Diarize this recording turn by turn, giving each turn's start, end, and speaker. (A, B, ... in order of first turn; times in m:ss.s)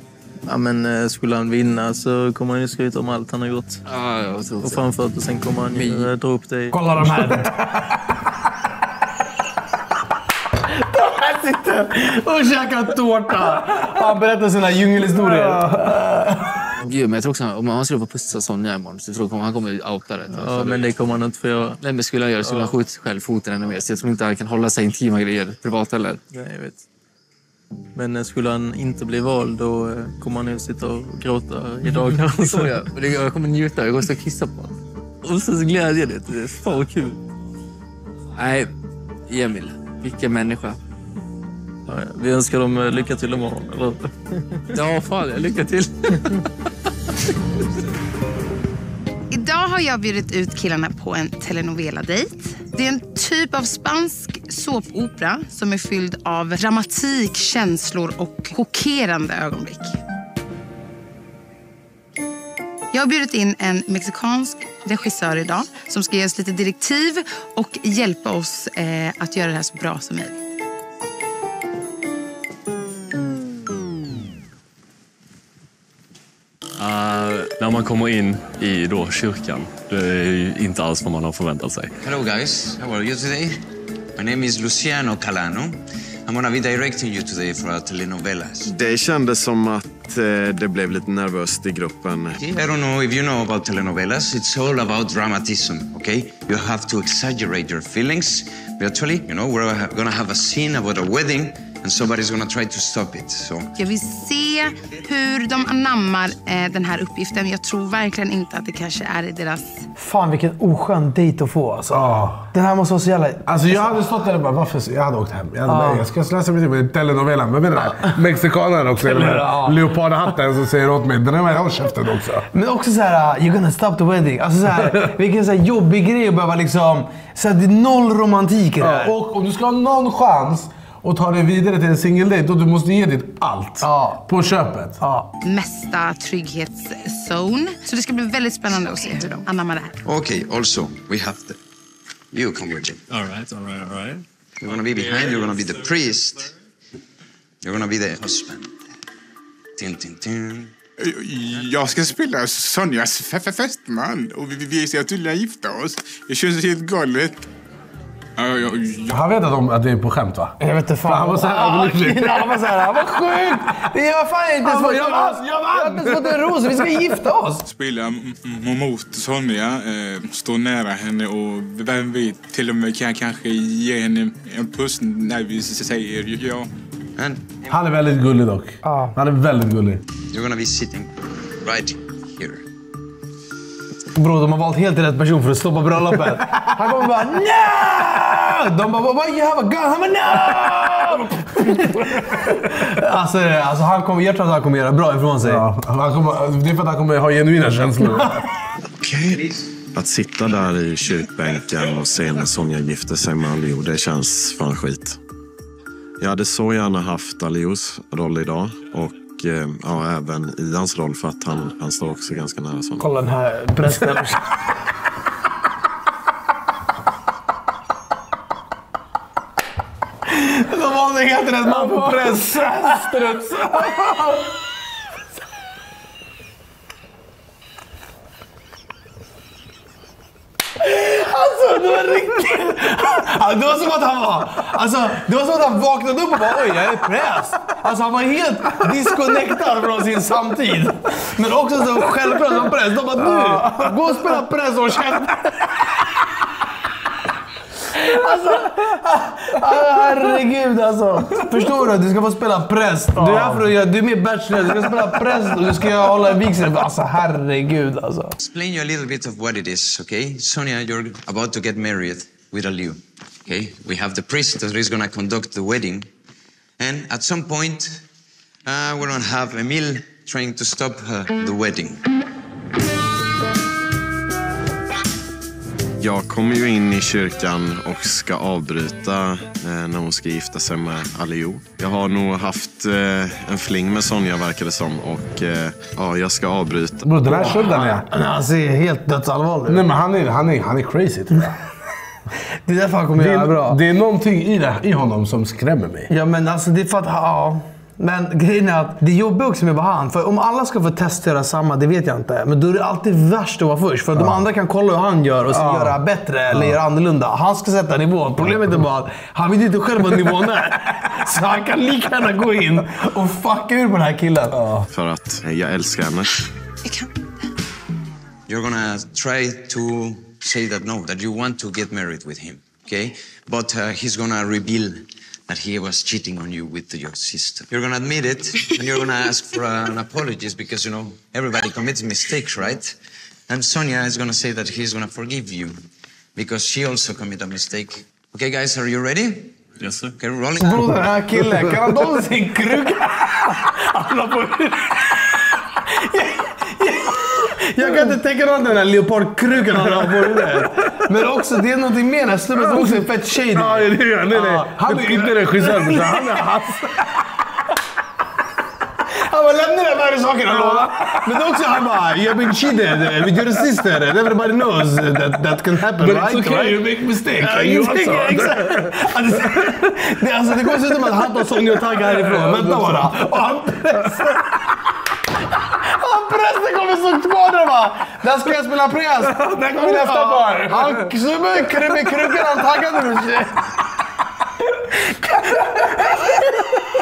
0:00.4-0:03.8 A
0:03.9-0:04.8 B
0:04.6-0:06.8 A
0:05.7-0:06.1 B
0:06.7-0:07.6 C
0:07.0-0:07.9 D
0:10.7-0:15.8 C
0:15.2-0:16.4 D
0:16.8-0:20.9 B
0:20.3-0:21.8 A
0:21.8-0:26.2 B
0:22.4-0:22.7 A
0:26.3-0:26.8 A
0:27.9-0:32.9 A
0:31.9-0:34.8 B
0:35.2-0:37.2 A
0:38.4-0:38.7 B
0:39.3-0:40.8 B
0:41.9-0:44.6 A
0:44.7-0:46.4 B
0:49.3-1:00.0 E
1:02.9-1:10.4 E
1:16.8-1:21.9 F
1:22.0-1:23.6 G
1:24.2-1:28.8 G
1:28.7-1:32.4 H
1:32.4-1:43.7 G
1:43.8-1:49.8 E
1:50.0-1:54.0 C
1:51.9-1:52.5 D
1:53.5-2:02.5 D
1:55.7-1:56.0 C
1:59.0-1:59.8 C
2:02.5-2:09.1 C
2:04.7-2:05.1 D
2:08.8-2:15.0 D
2:13.8-2:14.2 C
2:15.0-2:15.3 C
2:15.4-2:20.0 E
2:20.0-2:21.6 G
2:22.3-2:23.0 G
2:23.1-2:24.2 F
2:24.6-2:26.5 G
2:27.6-2:28.8 G
2:29.8-2:30.7 G
2:31.0-2:37.4 I
2:38.4-2:39.2 I
2:39.1-2:42.6 D
2:40.6-2:47.6 C
2:44.6-2:46.9 D
2:47.6-2:56.7 I
2:57.2-2:57.4 G
2:57.7-3:00.0 D
2:58.8-2:59.1 C
3:00.3-3:02.6 G
3:04.1-3:15.6 C
3:06.6-3:07.0 D
3:10.4-3:12.8 D
3:15.4-3:18.4 D
3:19.1-3:19.7 G
3:19.9-3:25.2 H
3:26.2-3:33.0 H
3:33.0-3:34.5 C
3:40.3-3:43.2 C
3:41.6-3:44.4 D
3:50.8-4:05.6 C
4:03.1-4:04.4 D
4:07.9-4:18.3 C
4:13.2-4:13.7 D
4:14.5-4:15.4 D
4:18.4-4:26.1 G
4:26.8-4:28.0 G
4:28.6-4:32.0 G
4:36.0-4:47.1 H
4:47.0-4:48.1 D
4:47.3-4:49.8 C
4:49.7-4:51.6 D
4:52.6-4:53.8 C
4:53.2-4:56.1 D
4:56.1-5:14.6 C
5:05.5-5:06.0 D
5:06.5-5:06.8 D
5:08.4-5:08.8 D
5:14.5-5:14.9 D
5:14.9-5:16.3 H
5:16.8-5:17.1 E
5:18.5-5:32.9 G
5:33.5-5:35.8 G
5:36.4-5:39.5 G
5:39.8-5:40.1 F
5:40.2-5:40.8 G
5:40.6-5:45.0 C
5:41.3-5:43.1 D
5:45.9-5:56.5 C
5:49.7-5:50.7 D
5:52.5-5:57.2 D
5:59.1-6:06.8 C
6:00.5-6:01.4 D
6:05.9-6:09.7 D
6:07.4-6:14.4 C
6:11.2-6:14.3 D
6:15.8-6:23.6 C
6:19.2-6:21.1 D
6:25.0-6:26.0 C